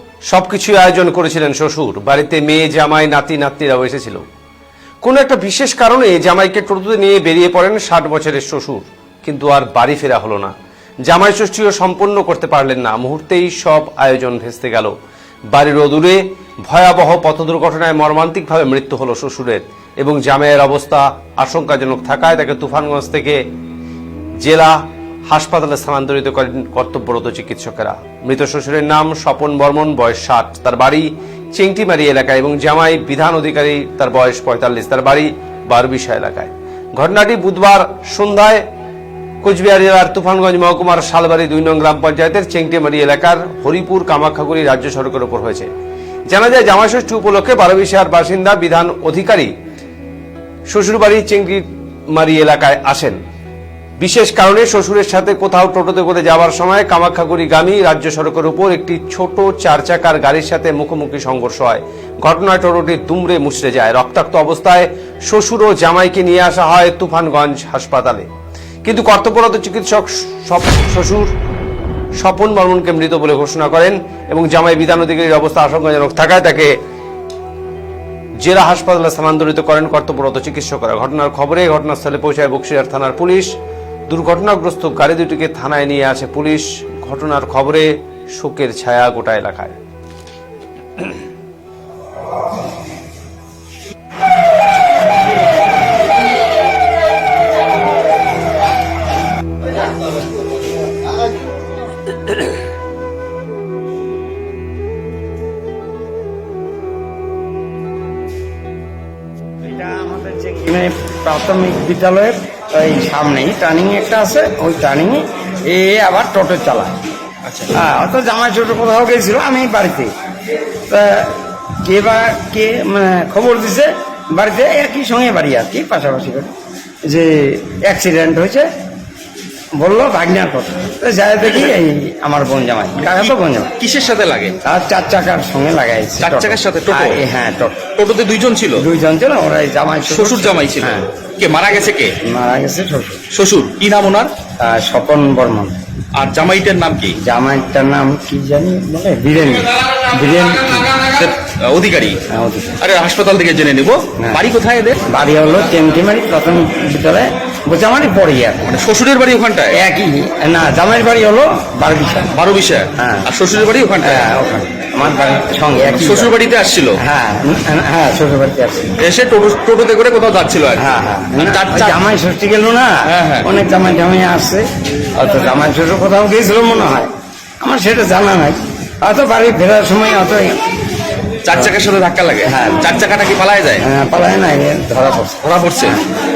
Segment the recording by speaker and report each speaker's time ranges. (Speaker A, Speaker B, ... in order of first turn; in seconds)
Speaker A: 0.3-4.2, 5.0-10.5, 11.1-14.9, 15.5-23.4, 24.4-38.6, 39.4-45.7, 46.3-49.5, 50.7-53.2, 54.0-68.3, 68.8-71.3, 72.2-76.7, 78.4-83.5, 84.1-89.8
Speaker B: 109.6-116.9, 117.7-120.1, 120.9-126.5, 127.1-128.7, 129.8-133.7, 134.6-137.9, 138.8-141.1, 142.2-143.2, 144.6-145.8, 147.2-150.9, 152.3-152.7, 155.1-158.7, 159.7-162.3, 163.0-163.3, 164.0-166.3, 167.0-168.9, 170.8-174.6, 175.2-177.1, 177.6-180.6, 182.4-182.9, 183.8-185.4
Speaker C: 117.5-117.8, 133.1-134.6, 136.2-137.2, 138.0-138.8, 140.1-142.1, 143.3-144.3, 146.2-147.2, 151.0-152.2, 152.8-155.0, 158.7-159.8, 162.3-164.3, 165.9-167.0, 169.0-172.0, 173.1-173.5, 181.4-183.8, 185.4-186.0